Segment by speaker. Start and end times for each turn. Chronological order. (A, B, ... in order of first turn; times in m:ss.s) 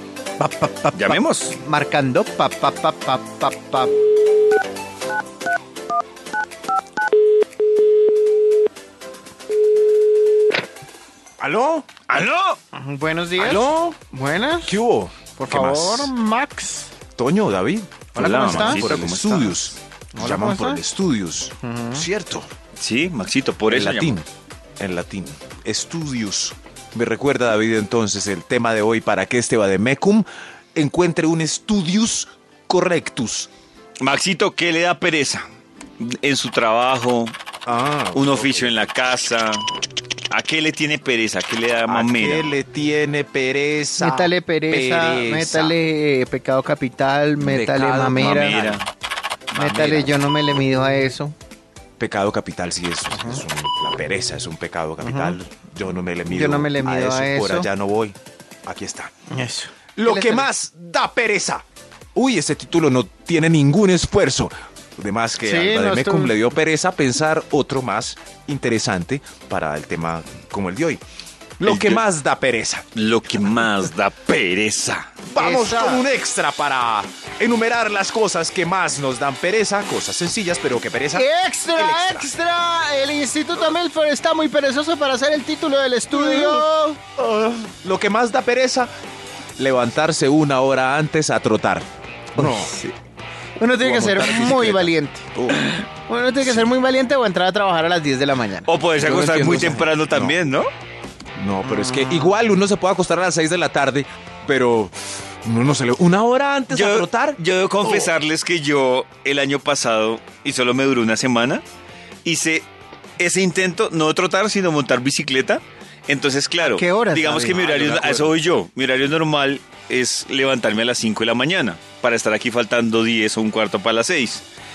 0:00.4-0:03.9 A
0:00.9-0:01.5 B
0:11.4-0:11.9 C
0:12.1-0:12.6 B
0:12.7-0:14.7 A
0:13.4-0:14.0 C
0:14.6-0:16.1 C
0:15.4-0:16.9 A
0:17.1-0:22.5 C
0:18.2-0:18.8 A
0:18.2-0:19.6 B
0:20.1-0:20.8 A
0:21.6-0:22.0 A
0:22.8-0:24.2 B
0:23.7-0:24.3 C
0:24.8-0:33.5 C
0:34.0-0:35.4 B
0:36.0-0:37.4 B
0:37.6-0:38.9 C
0:38.1-0:39.6 B
0:40.3-0:42.5 B
0:41.9-0:45.8 C
0:44.0-0:48.5 A
0:47.4-0:48.8 C
0:48.2-0:48.9 B
0:49.5-0:50.2 C
0:49.5-0:51.3 A
0:52.0-0:59.1 C
0:53.1-0:53.4 A
0:55.0-0:55.4 A
0:56.3-0:57.7 A
0:59.3-1:00.5 A
1:00.0-1:11.0 C
1:05.4-1:06.4 A
1:11.6-1:12.8 C
1:11.6-1:12.0 B
1:13.0-1:15.1 B
1:15.3-1:22.3 C
1:15.4-1:16.1 A
1:21.1-1:27.1 A
1:26.1-1:26.7 C
1:27.2-1:28.9 C
1:29.6-1:32.7 C
1:32.4-1:32.9 A
1:33.6-1:35.2 A
1:33.8-1:35.6 C
1:36.1-1:38.7 A
1:38.6-1:40.7 B
1:39.0-1:40.4 C
1:41.4-1:48.1 C
1:46.7-1:51.6 B
1:52.2-1:52.7 B
1:53.2-2:04.4 B
1:56.6-1:57.6 A
1:57.5-1:58.4 C